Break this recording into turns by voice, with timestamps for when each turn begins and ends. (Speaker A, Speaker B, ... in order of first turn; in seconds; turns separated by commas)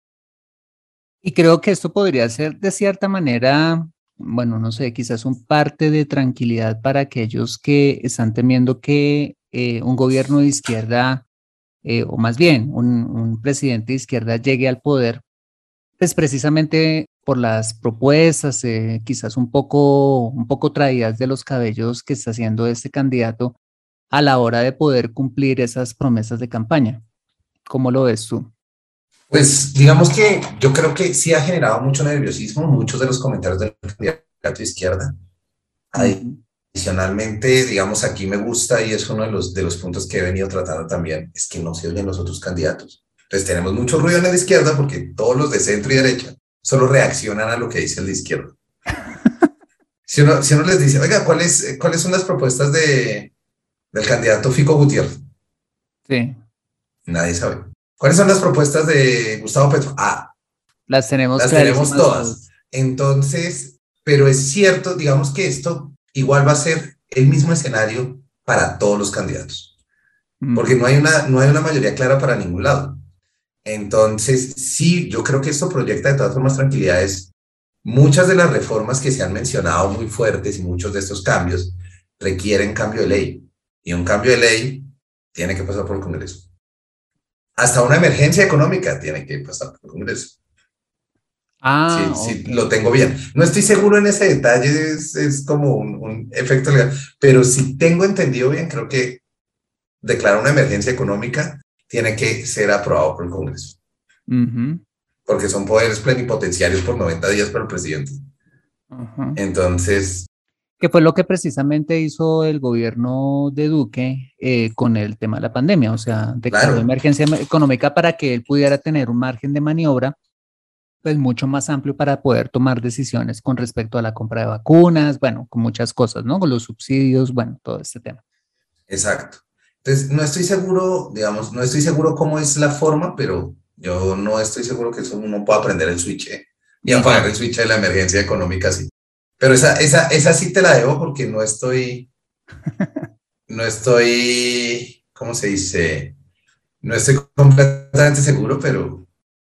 Speaker A: 1.2-11.2, Speaker A: 11.8-15.2, Speaker A: 16.0-23.6, Speaker A: 24.1-27.0, Speaker A: 27.7-28.5, Speaker B: 29.3-35.1, Speaker B: 35.9-48.5, Speaker A: 36.0-36.4, Speaker B: 50.1-53.3, Speaker B: 53.9-55.2, Speaker A: 56.1-56.4, Speaker B: 57.1-60.3, Speaker A: 60.9-62.4, Speaker B: 61.4-69.7, Speaker A: 70.4-70.8, Speaker B: 70.5-73.0, Speaker B: 73.6-77.3, Speaker B: 77.8-86.5, Speaker B: 87.6-90.3, Speaker A: 91.6-92.7, Speaker B: 91.9-99.2, Speaker B: 100.0-103.8, Speaker A: 104.3-104.8, Speaker B: 105.3-108.2, Speaker A: 108.9-109.4, Speaker B: 109.4-110.3, Speaker A: 110.8-120.2, Speaker B: 116.5-116.9, Speaker A: 121.0-128.2, Speaker B: 128.9-142.1, Speaker A: 136.8-137.3, Speaker A: 142.8-143.1, Speaker B: 143.5-146.2, Speaker B: 146.8-149.1